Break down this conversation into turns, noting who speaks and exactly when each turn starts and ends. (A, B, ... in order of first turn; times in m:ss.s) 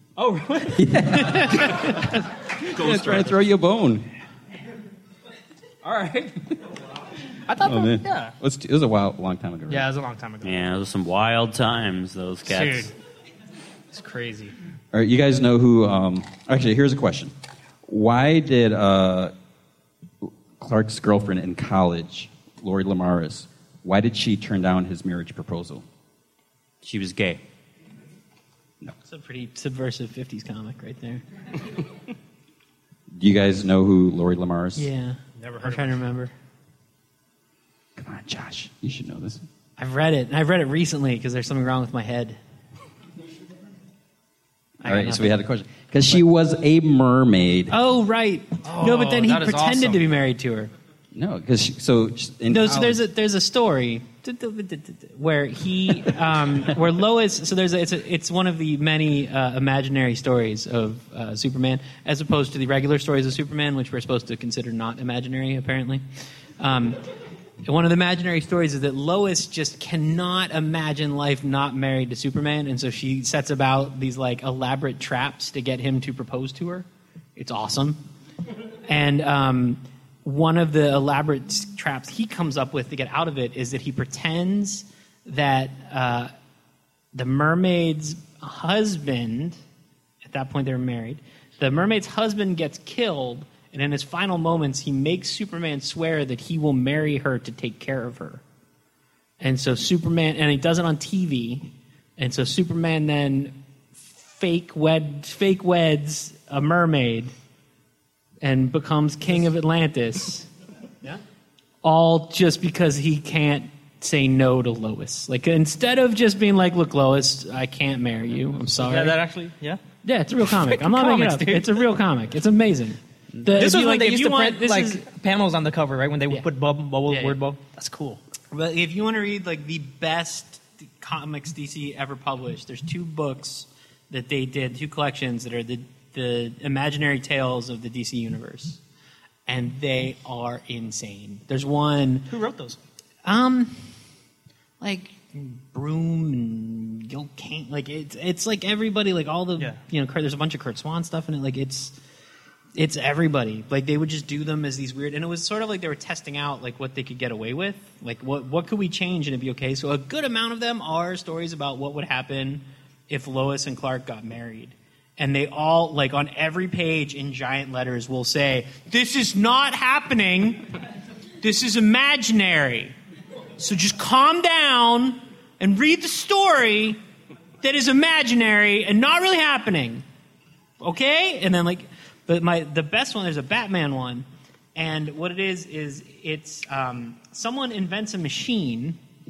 0:00.2-0:01.6 A
0:00.7-0:04.1 B
0:01.3-0:02.1 C
0:02.8-0:03.3 A
0:05.8-0:06.6 A
0:07.5-0:08.4 A
0:07.6-0:09.9 B
0:09.7-0:10.7 A
0:10.4-0:12.9 D
0:12.5-0:12.9 A
0:13.9-0:14.6 A
0:14.9-0:17.3 B
0:17.9-0:19.3 B
0:20.2-0:25.8 B
0:26.8-0:27.4 D
0:29.0-0:31.2 C
0:33.1-0:34.9 B
0:34.8-0:36.3 C
0:35.4-0:36.0 A
0:38.0-0:39.5 B
0:39.8-0:42.4 C
0:44.8-0:45.4 C
0:44.8-0:47.8 B
0:47.7-0:50.7 C
0:48.6-0:50.0 A
0:51.1-0:53.0 B
0:52.5-1:06.0 C
1:06.6-1:07.0 C
1:07.6-1:18.0 C
1:18.9-1:26.3 C
1:27.1-1:29.6 C
1:30.2-1:38.4 C
1:39.4-1:47.3 C
1:48.4-1:50.5 C
1:51.8-1:59.2 C
1:58.8-1:59.8 A
2:00.0-2:05.0 C
2:00.4-2:01.9 A
2:03.5-2:08.2 A
2:07.1-2:07.4 C
2:08.5-2:18.8 C
2:19.5-2:22.3 C
2:22.3-2:22.8 A
2:23.2-2:23.8 C
2:24.8-2:32.0 C
2:32.8-2:50.7 C
2:51.4-2:53.0 C
2:53.6-2:57.0 C
2:57.6-3:00.0 C
3:00.8-3:09.0 C